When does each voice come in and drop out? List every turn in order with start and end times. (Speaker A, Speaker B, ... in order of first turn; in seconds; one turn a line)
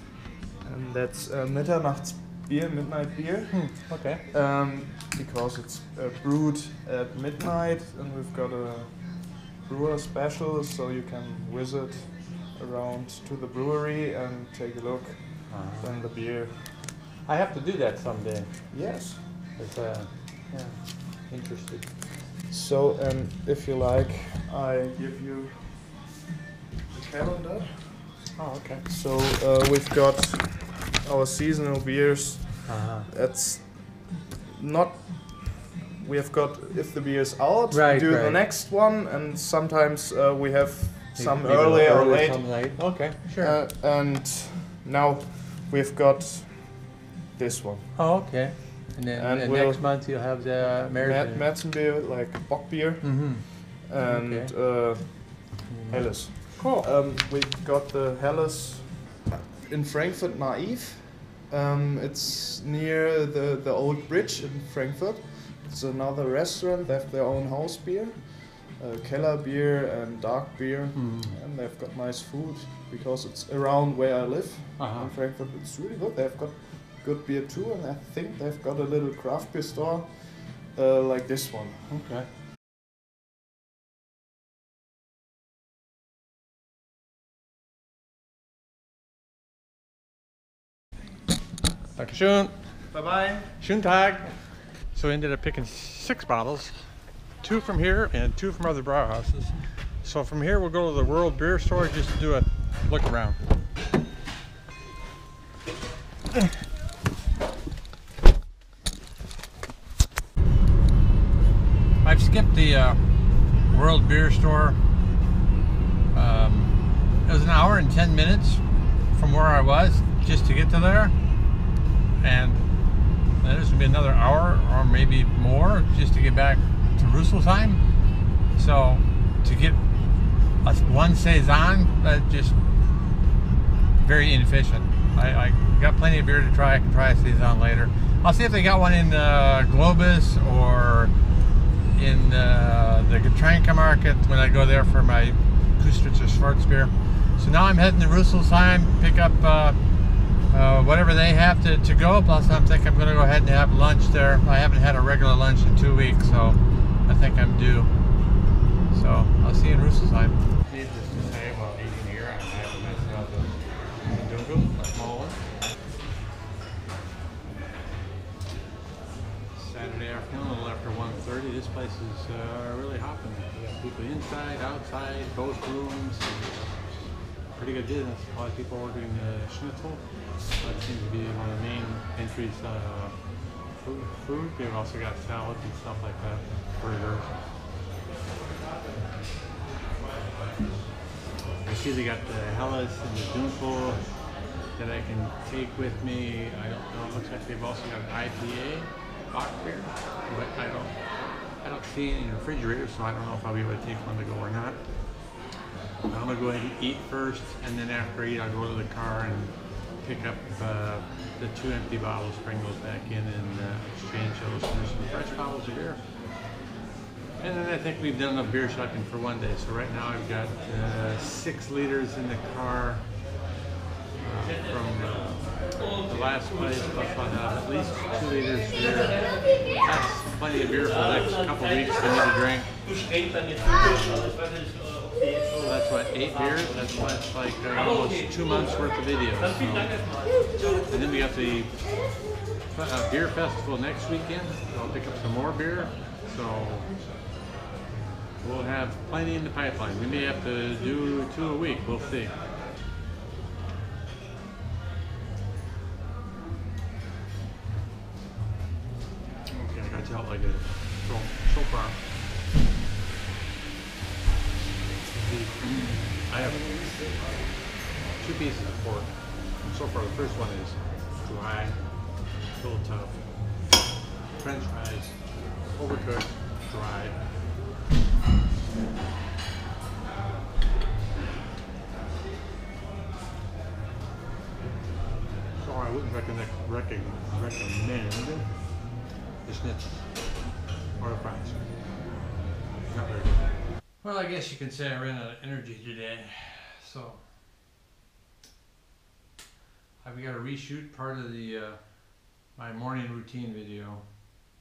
Speaker A: 0.6-16.8
Speaker B: 3.5-4.2
Speaker B: 15.5-15.9
Speaker B: 17.2-19.0
Speaker A: 18.7-19.2
Speaker B: 19.6-21.9
Speaker A: 22.5-26.1
Speaker A: 26.9-48.1
Speaker B: 28.4-28.8
Speaker B: 32.7-33.1
Speaker B: 37.7-38.4
Speaker B: 41.1-43.5
Speaker B: 48.0-51.5
Speaker A: 49.1-81.8
Speaker B: 53.0-54.5
Speaker B: 55.7-56.9
Speaker B: 70.9-71.3
Speaker B: 74.8-75.1
Speaker B: 81.9-82.3
Speaker B: 91.9-93.0
Speaker A: 92.9-93.6
Speaker B: 93.6-103.4
Speaker B: 112.0-113.0
Speaker B: 113.6-114.8
Speaker B: 116.1-121.2
Speaker B: 122.2-122.7
Speaker B: 123.4-127.8
Speaker B: 128.5-129.8
Speaker B: 130.6-132.6
Speaker B: 134.0-141.1
Speaker B: 141.9-157.9
Speaker B: 158.9-165.5
Speaker B: 169.5-187.3
Speaker B: 191.6-205.3
Speaker B: 206.1-216.5
Speaker B: 217.4-223.3
Speaker B: 224.2-233.0
Speaker B: 233.6-234.3
Speaker B: 235.5-242.2
Speaker B: 242.7-247.0
Speaker B: 248.4-252.4
Speaker B: 259.5-262.1
Speaker B: 265.1-267.0
Speaker A: 266.9-267.2
Speaker B: 268.2-273.4
Speaker B: 274.4-277.1
Speaker B: 285.6-288.7
Speaker B: 289.4-290.4
Speaker B: 291.0-291.8
Speaker B: 292.8-297.3
Speaker B: 300.0-304.1